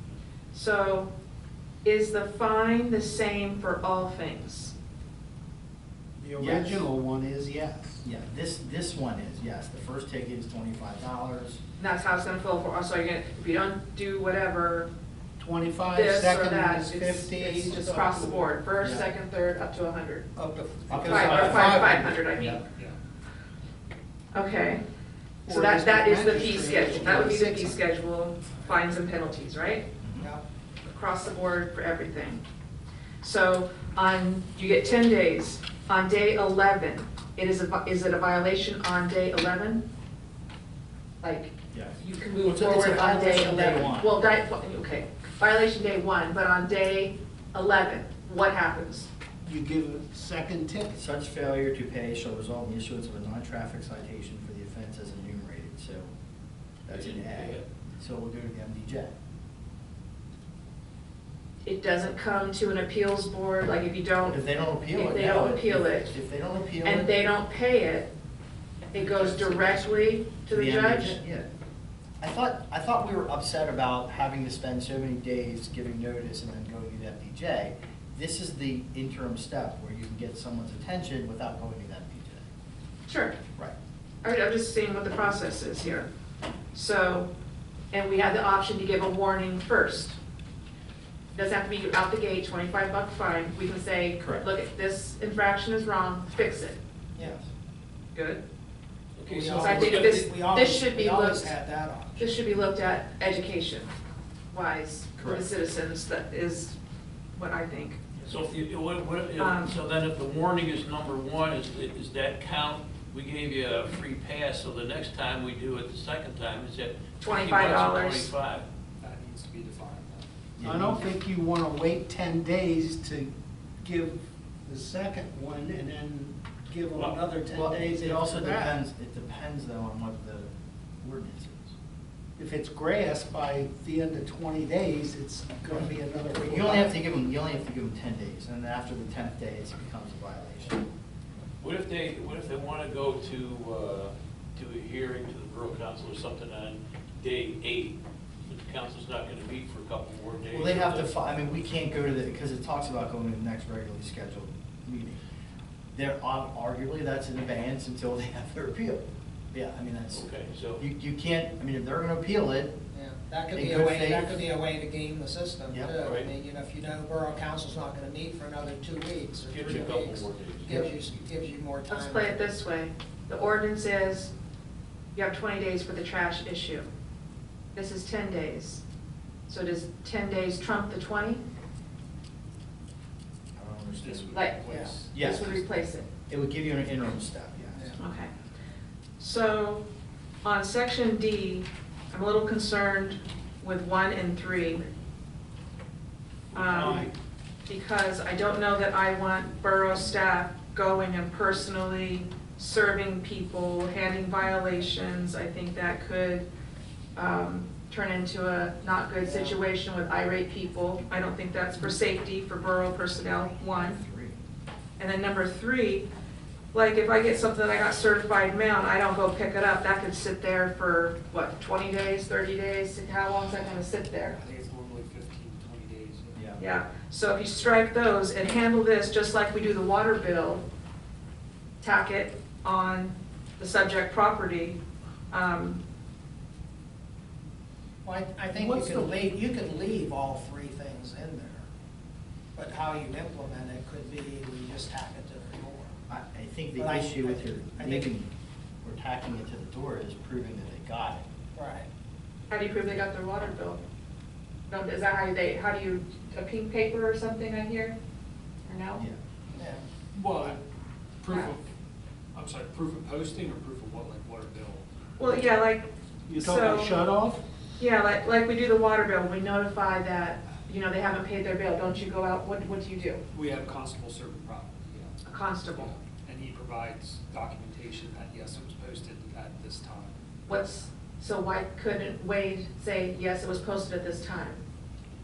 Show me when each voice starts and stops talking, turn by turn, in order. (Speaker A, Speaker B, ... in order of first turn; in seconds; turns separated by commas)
Speaker A: 0.5-1.1, Speaker A: 1.8-4.7, Speaker B: 6.2-8.0, Speaker C: 6.4-6.9, Speaker C: 8.0-11.6, Speaker A: 11.8-14.9, Speaker B: 15.4-18.4, Speaker A: 15.9-20.2, Speaker C: 18.8-19.0, Speaker B: 20.4-22.2, Speaker D: 20.6-21.4, Speaker C: 20.9-21.9, Speaker A: 21.1-22.6, Speaker E: 22.6-22.9, Speaker A: 24.3-24.8, Speaker B: 25.4-27.8, Speaker A: 25.5-29.9, Speaker C: 30.0-30.3, Speaker D: 30.2-30.4, Speaker A: 30.8-32.4, Speaker A: 33.2-39.8, Speaker A: 41.2-49.1, Speaker C: 41.7-44.1, Speaker B: 49.4-51.0, Speaker C: 50.9-56.1, Speaker C: 56.9-59.1, Speaker F: 56.9-57.6, Speaker A: 61.6-64.4, Speaker C: 64.3-67.1, Speaker A: 64.9-66.1, Speaker A: 66.8-68.1, Speaker A: 68.9-71.2, Speaker C: 70.5-71.5, Speaker C: 72.2-82.5, Speaker A: 83.1-83.4, Speaker A: 84.2-86.1, Speaker A: 86.7-87.3, Speaker A: 87.9-90.2, Speaker A: 91.3-96.8, Speaker C: 97.2-97.4, Speaker A: 98.1-98.4, Speaker F: 99.2-100.5, Speaker D: 99.2-102.5, Speaker A: 99.6-101.5, Speaker A: 102.2-103.9, Speaker A: 104.5-106.8, Speaker C: 105.2-105.5, Speaker A: 107.3-108.1, Speaker F: 108.2-118.7, Speaker A: 109.4-109.7, Speaker A: 117.2-118.3, Speaker E: 119.0-120.3, Speaker C: 120.5-121.0, Speaker B: 120.6-128.8, Speaker C: 127.5-130.5, Speaker C: 131.0-131.7, Speaker B: 132.4-136.9, Speaker C: 136.4-140.9, Speaker F: 141.6-151.1, Speaker C: 150.5-155.2, Speaker C: 155.9-159.0, Speaker C: 159.5-162.8, Speaker F: 160.1-160.8, Speaker D: 162.9-172.5, Speaker C: 163.5-164.4, Speaker F: 165.9-166.3, Speaker F: 169.4-170.9, Speaker A: 171.9-174.3, Speaker A: 175.1-176.8, Speaker A: 177.7-178.8, Speaker A: 179.5-181.4, Speaker C: 183.6-185.6, Speaker E: 183.9-185.6, Speaker A: 184.3-186.1, Speaker C: 186.3-187.9, Speaker A: 188.0-188.3, Speaker A: 189.2-189.8, Speaker A: 190.4-194.8, Speaker F: 196.5-197.1, Speaker A: 196.5-197.0, Speaker B: 196.6-197.1, Speaker A: 197.7-206.5, Speaker A: 207.1-214.0, Speaker D: 209.2-209.5, Speaker C: 213.4-214.4, Speaker A: 215.0-216.1, Speaker A: 216.7-224.4, Speaker E: 224.4-226.4, Speaker C: 226.3-226.6, Speaker A: 226.6-230.6, Speaker A: 231.8-234.8, Speaker A: 235.3-235.8, Speaker D: 238.0-241.6, Speaker B: 238.4-239.2, Speaker D: 242.6-245.9, Speaker C: 246.1-248.3, Speaker D: 246.7-248.1, Speaker C: 248.8-251.3, Speaker D: 251.5-251.9, Speaker A: 252.5-253.8, Speaker A: 254.7-257.9, Speaker A: 258.6-259.0, Speaker D: 259.6-259.8, Speaker E: 260.1-260.6, Speaker E: 261.2-261.7, Speaker E: 262.3-264.8, Speaker A: 265.2-266.9, Speaker B: 266.3-267.4, Speaker A: 267.8-273.2, Speaker E: 273.3-275.1, Speaker A: 275.2-275.9, Speaker E: 275.7-280.1, Speaker A: 280.5-284.6